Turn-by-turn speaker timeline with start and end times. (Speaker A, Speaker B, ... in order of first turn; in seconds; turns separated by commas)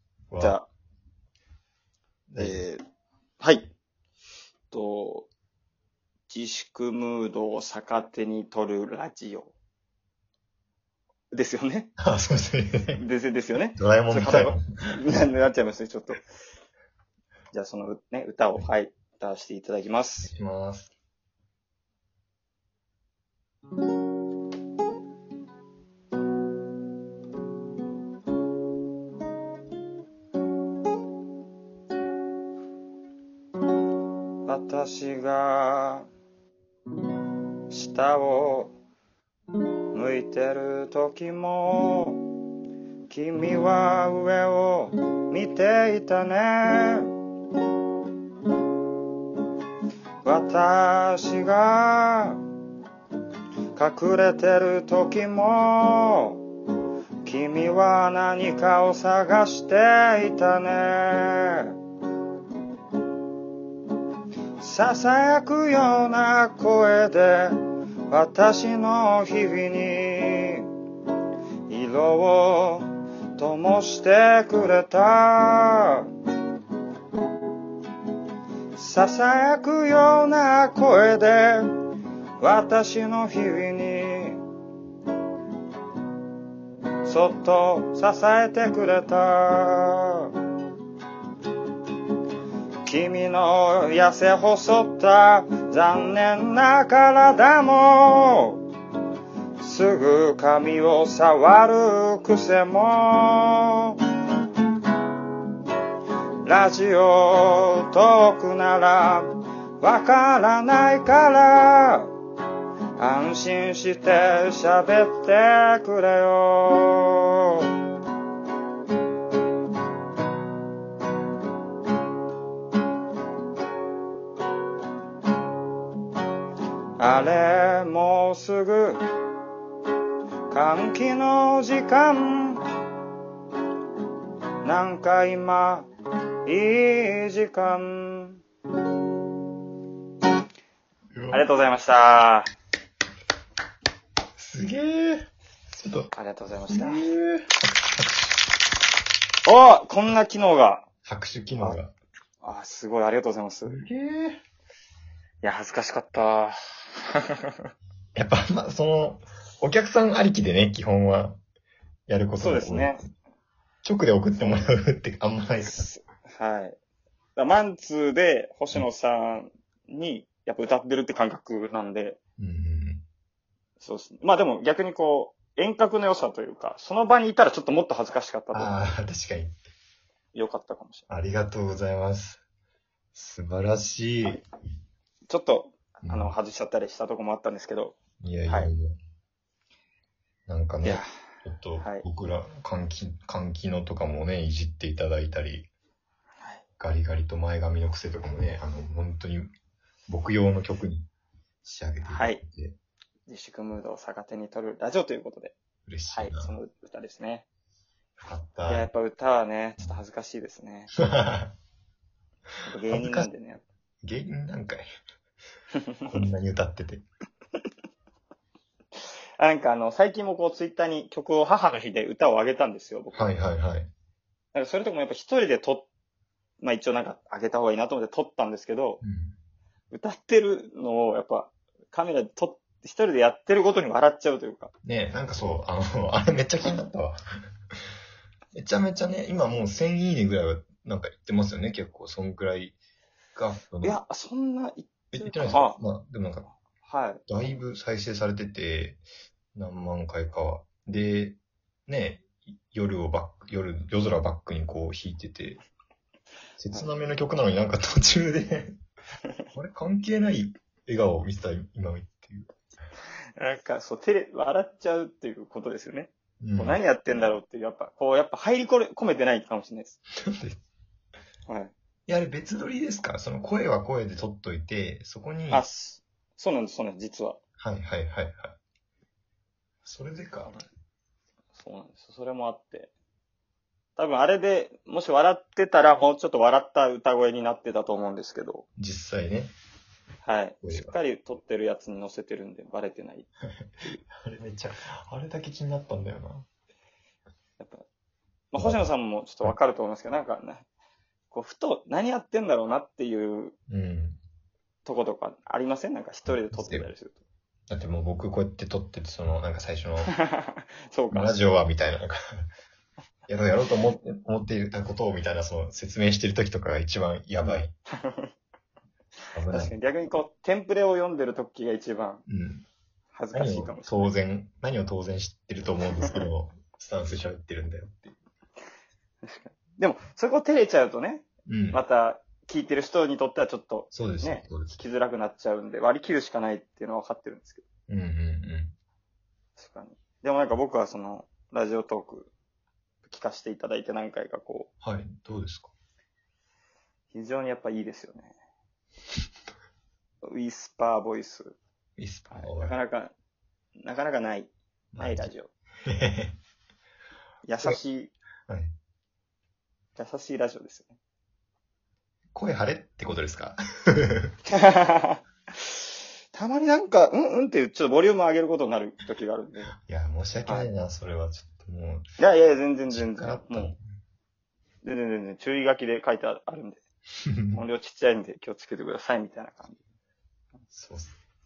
Speaker A: 0.3-0.6, Speaker B: 0.4-0.7, Speaker A: 2.3-2.7, Speaker B: 2.4-2.8, Speaker B: 3.4-3.7, Speaker B: 4.7-5.3, Speaker B: 6.3-9.5, Speaker B: 11.3-11.9, Speaker A: 12.0-13.0, Speaker B: 12.9-16.2, Speaker A: 13.8-14.6, Speaker B: 17.5-20.3, Speaker A: 20.2-20.9, Speaker B: 34.5-36.0, Speaker B: 37.7-38.8, Speaker B: 39.9-42.2, Speaker B: 43.1-47.1, Speaker B: 50.2-52.4, Speaker B: 53.7-56.4, Speaker B: 57.2-61.7, Speaker B: 64.6-70.7, Speaker B: 71.7-76.1, Speaker B: 78.7-81.7, Speaker B: 82.4-84.4, Speaker B: 87.0-90.3, Speaker B: 92.8-98.6, Speaker B: 99.6-104.0, Speaker B: 106.4-112.1, Speaker B: 113.0-117.7, Speaker B: 127.0-129.0, Speaker B: 130.5-132.6, Speaker B: 134.6-135.9, Speaker B: 136.4-138.4, Speaker A: 141.1-141.4, Speaker B: 141.3-142.5, Speaker A: 144.4-146.1, Speaker B: 146.1-147.1, Speaker A: 146.7-148.3, Speaker B: 149.4-150.9, Speaker A: 151.1-151.9, Speaker B: 152.4-153.8, Speaker A: 153.6-154.4, Speaker B: 155.4-156.6, Speaker B: 157.2-157.5, Speaker A: 158.1-161.4, Speaker A: 162.1-163.0, Speaker B: 162.4-163.0, Speaker A: 163.8-165.9, Speaker B: 164.4-164.7, Speaker B: 165.6-166.8, Speaker B: 167.3-172.2, Speaker A: 172.4-173.0, Speaker B: 173.8-178.8, Speaker A: 178.5-179.6, Speaker B: 180.3-181.1, Speaker A: 181.1-182.4, Speaker A: 183.1-184.4, Speaker B: 185.3-187.9, Speaker A: 186.0-186.3, Speaker A: 188.2-188.9, Speaker A: 190.5-195.7, Speaker B: 191.8-192.0, Speaker A: 196.8-199.5, Speaker A: 200.1-201.1, Speaker A: 201.6-202.7, Speaker B: 202.1-202.4, Speaker B: 203.3-205.5, Speaker A: 205.8-206.6, Speaker B: 206.1-207.4, Speaker A: 208.2-208.9, Speaker B: 208.7-210.9, Speaker A: 211.0-211.5, Speaker B: 212.7-213.6, Speaker A: 212.9-213.3, Speaker A: 214.0-214.8, Speaker B: 215.8-216.2, Speaker A: 216.1-217.0, Speaker B: 219.4-223.3, Speaker A: 223.1-223.9, Speaker B: 224.5-225.9, Speaker B: 226.6-229.0, Speaker A: 229.0-229.3, Speaker B: 229.9-234.7, Speaker A: 234.8-237.2, Speaker A: 238.5-242.8, Speaker A: 243.3-244.0, Speaker B: 243.8-245.8, Speaker A: 245.1-246.5, Speaker B: 246.8-247.2, Speaker A: 247.3-249.0, Speaker A: 249.5-251.3, Speaker A: 251.9-255.6, Speaker A: 256.6-258.8, Speaker A: 259.5-262.5, Speaker B: 263.4-270.0, Speaker A: 266.4-266.8, Speaker A: 270.2-270.6, Speaker B: 271.5-271.7, Speaker A: 272.1-275.6, Speaker B: 275.5-277.4, Speaker A: 277.6-278.5, Speaker A: 279.8-280.6, Speaker B: 281.5-282.9, Speaker B: 284.0-288.6, Speaker A: 288.8-289.5, Speaker B: 290.2-293.3, Speaker A: 290.6-290.9, Speaker A: 293.8-296.4, Speaker B: 297.6-297.9, Speaker B: 298.5-300.7, Speaker A: 298.6-298.9, Speaker B: 301.3-303.5, Speaker A: 303.7-304.2, Speaker B: 304.9-307.2, Speaker A: 306.2-306.9, Speaker A: 307.7-310.1, Speaker B: 310.1-311.4, Speaker A: 311.1-312.2, Speaker A: 313.3-317.7, Speaker B: 317.4-318.3, Speaker A: 319.3-319.7, Speaker B: 319.5-322.2, Speaker A: 322.3-322.6, Speaker B: 323.1-324.1, Speaker A: 323.3-328.1, Speaker B: 329.2-337.6, Speaker A: 331.5-331.8, Speaker A: 333.9-334.8, Speaker A: 337.9-338.7, Speaker B: 339.6-342.3, Speaker B: 343.1-344.7, Speaker A: 344.8-345.7, Speaker B: 347.1-348.3, Speaker B: 350.2-351.6, Speaker A: 352.0-352.8, Speaker B: 352.3-353.1, Speaker B: 353.8-355.5, Speaker A: 354.9-355.3, Speaker A: 355.9-356.3, Speaker B: 357.4-358.1, Speaker A: 358.5-358.7, Speaker B: 359.9-360.9, Speaker A: 362.3-364.3, Speaker B: 364.5-369.7, Speaker A: 369.8-372.0, Speaker B: 372.2-373.8, Speaker A: 372.9-373.8, Speaker B: 374.8-376.8, Speaker A: 377.2-377.6, Speaker B: 377.5-379.8, Speaker A: 380.7-381.1